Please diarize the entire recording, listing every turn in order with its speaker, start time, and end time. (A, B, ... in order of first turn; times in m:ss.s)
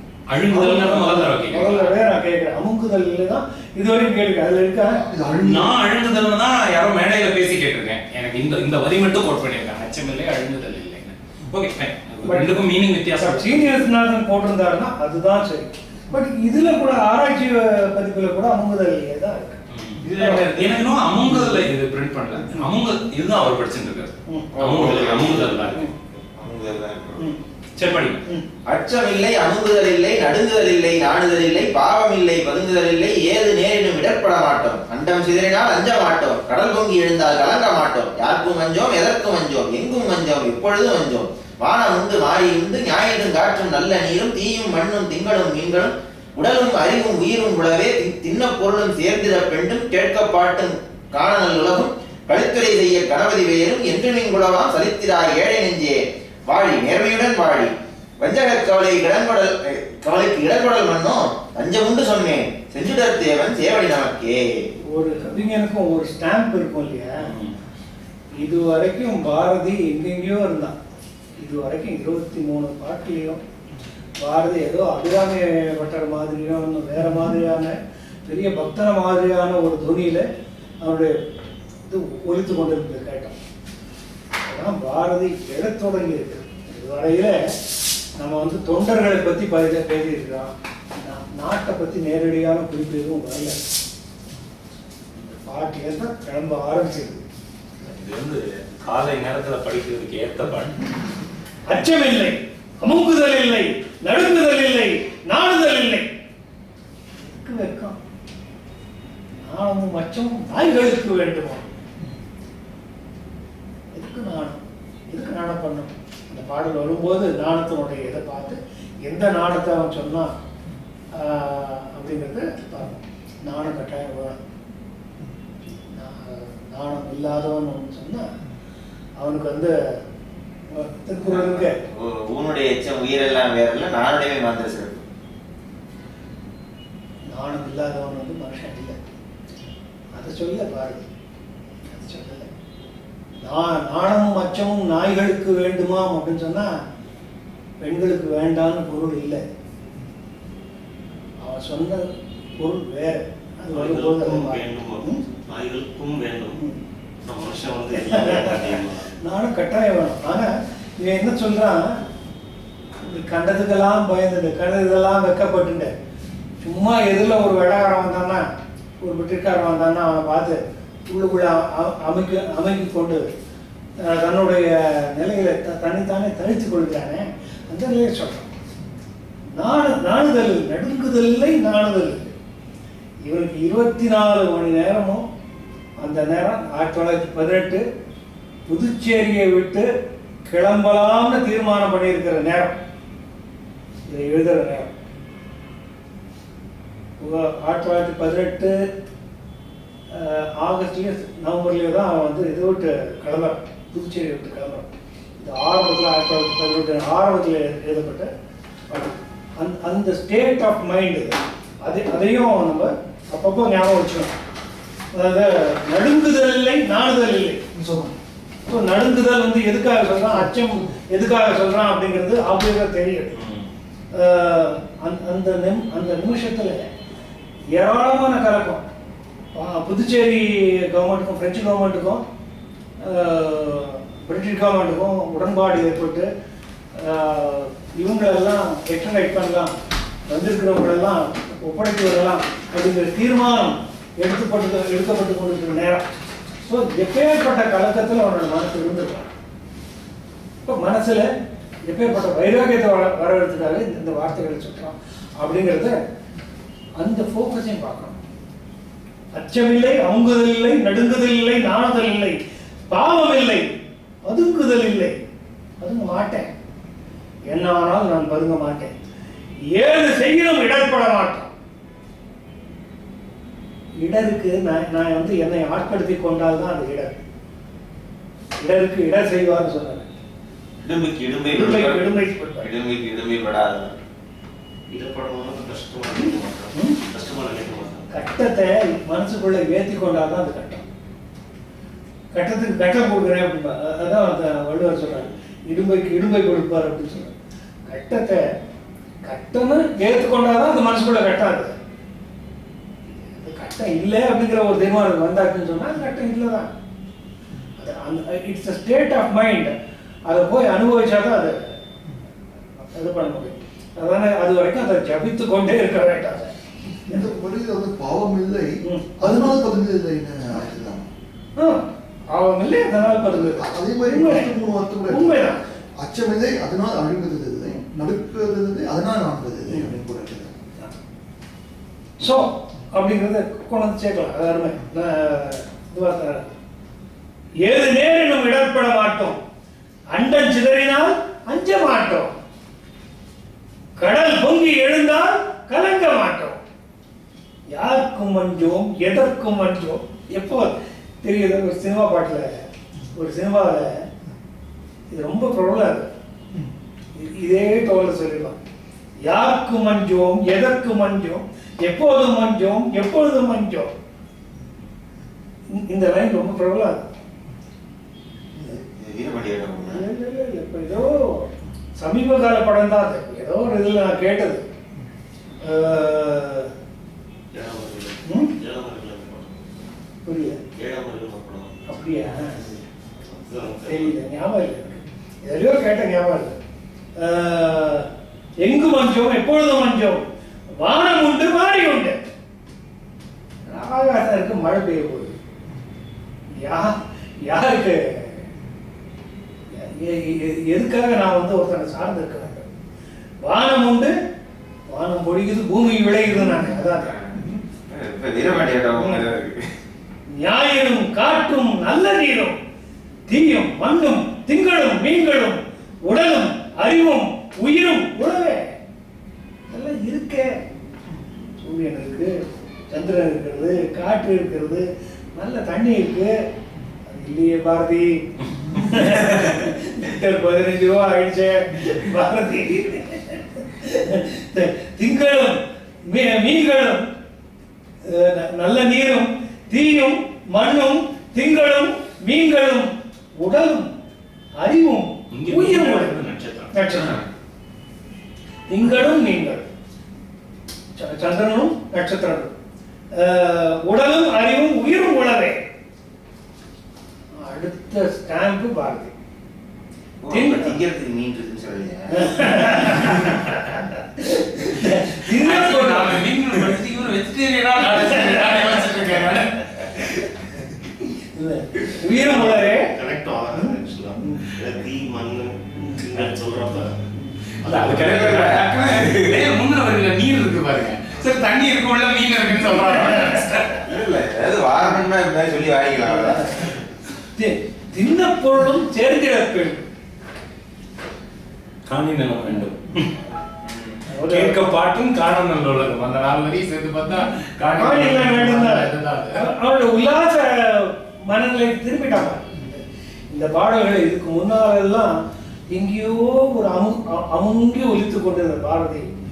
0:00.3-0:02.0 A
0:00.5-0:05.0 B
0:05.0-0:05.7 C
0:05.4-0:13.8 A
0:12.2-0:20.6 B
0:19.7-0:25.8 A
0:20.2-0:20.4 D
0:21.4-0:21.6 B
0:24.5-0:27.3 D
0:27.8-0:28.2 A
0:28.7-1:04.6 D
1:04.9-1:07.3 B
1:07.2-1:07.5 A
1:08.3-1:10.8 B
1:11.4-1:13.4 B
1:14.2-1:20.2 B
1:20.8-1:21.2 B
1:21.9-1:23.4 B
1:24.4-1:27.5 B
1:28.2-1:33.6 B
1:35.2-1:37.2 B
1:37.8-1:40.9 A
1:41.7-1:46.1 B
1:47.2-1:48.0 B
1:49.4-1:51.7 B
1:53.9-1:54.6 B
1:55.1-2:00.3 B
2:01.1-2:04.4 B
2:05.9-2:08.3 B
2:09.2-2:09.7 B
2:10.7-2:11.8 B
2:11.3-2:15.0 D
2:17.3-2:19.0 B
2:20.1-2:21.1 B
2:21.8-2:22.5 B
2:23.4-2:26.7 B
2:27.8-2:29.4 B
2:31.4-2:35.2 B
2:33.7-2:36.6 E
2:37.2-2:39.2 E
2:37.9-2:41.9 B
2:43.0-2:45.9 B
2:46.6-2:48.4 B
2:49.0-2:53.3 B
2:54.0-2:58.5 B
2:59.6-3:02.3 B
3:03.2-3:05.2 B
3:06.0-3:07.8 B
3:08.7-3:09.9 B
3:10.4-3:12.8 B
3:14.1-3:15.0 B
3:17.2-3:18.9 B
3:20.1-3:28.3 B
3:28.9-3:34.3 B
3:35.1-3:37.6 B
3:37.7-3:38.1 C
3:38.6-3:43.3 B
3:43.3-3:43.7 A
3:44.1-3:46.9 B
3:47.7-3:48.8 B
3:49.5-3:52.2 B
3:53.0-3:56.3 B
3:57.0-3:59.7 B
4:00.3-4:06.0 B
4:06.6-4:09.3 B
4:10.6-4:11.3 B
4:11.9-4:16.0 B
4:17.0-4:18.2 B
4:19.3-4:22.4 B
4:22.9-4:23.7 B
4:24.2-4:25.2 B
4:25.8-4:26.5 B
4:27.5-4:28.9 B
4:29.7-4:31.5 B
4:34.0-4:37.2 B
4:38.6-4:40.1 B
4:40.8-4:44.0 D
4:41.5-4:42.7 B
4:44.9-4:48.1 E
4:48.1-4:50.8 B
4:52.3-4:57.3 B
4:57.9-4:58.4 B
4:59.2-5:01.7 B
5:03.1-5:06.7 B
5:07.8-5:09.7 B
5:10.3-5:11.7 B
5:12.9-5:16.5 B
5:17.1-5:21.1 C
5:18.8-5:19.6 B
5:21.6-5:24.5 B
5:23.3-5:30.5 C
5:25.1-5:25.7 B
5:32.2-5:36.5 B
5:37.6-5:39.4 B
5:40.1-5:42.4 B
5:44.0-5:46.6 B
5:47.7-5:52.6 B
5:53.1-5:54.0 B
5:55.1-5:56.1 B
5:57.1-5:58.6 B
5:59.2-6:03.9 B
6:05.7-6:07.0 B
6:08.6-6:10.0 D
6:09.8-6:14.6 B
6:15.6-6:16.7 B
6:17.5-6:19.7 E
6:18.2-6:18.5 B
6:20.2-6:20.6 B
6:20.7-6:21.9 E
6:21.9-6:22.6 B
6:22.4-6:24.2 E
6:23.8-6:26.6 B
6:27.2-6:28.1 B
6:28.6-6:30.2 B
6:30.8-6:32.2 B
6:33.7-6:35.4 B
6:36.5-6:38.4 B
6:39.7-6:42.6 B
6:43.4-6:44.1 B
6:44.9-6:47.1 B
6:46.9-6:49.7 D
6:50.4-6:52.6 B
6:53.3-6:58.7 B
6:59.7-7:00.6 B
7:01.6-7:02.4 B
7:02.9-7:06.3 B
7:07.0-7:17.1 B
7:08.9-7:09.6 A
7:18.0-7:23.9 B
7:24.6-7:27.2 B
7:25.3-7:26.9 A
7:28.7-7:29.7 B
7:31.0-7:32.5 B
7:33.1-7:35.6 B
7:37.4-7:39.1 B
7:40.2-7:43.4 D
7:40.3-7:40.8 B
7:42.1-7:43.3 B
7:43.9-7:46.2 B
7:45.3-7:50.1 A
7:48.0-7:48.9 B
7:51.2-7:52.9 B
7:52.1-7:57.0 E
7:53.5-7:54.5 B
7:55.8-7:56.0 B
7:57.6-7:58.0 E
7:57.6-8:03.8 A
7:57.8-7:59.4 D
8:03.8-8:06.8 D
8:06.0-8:06.7 B
8:07.3-8:09.8 B
8:11.9-8:13.1 A
8:13.6-8:13.9 D
8:14.1-8:14.7 B
8:14.2-8:19.5 A
8:17.7-8:29.1 B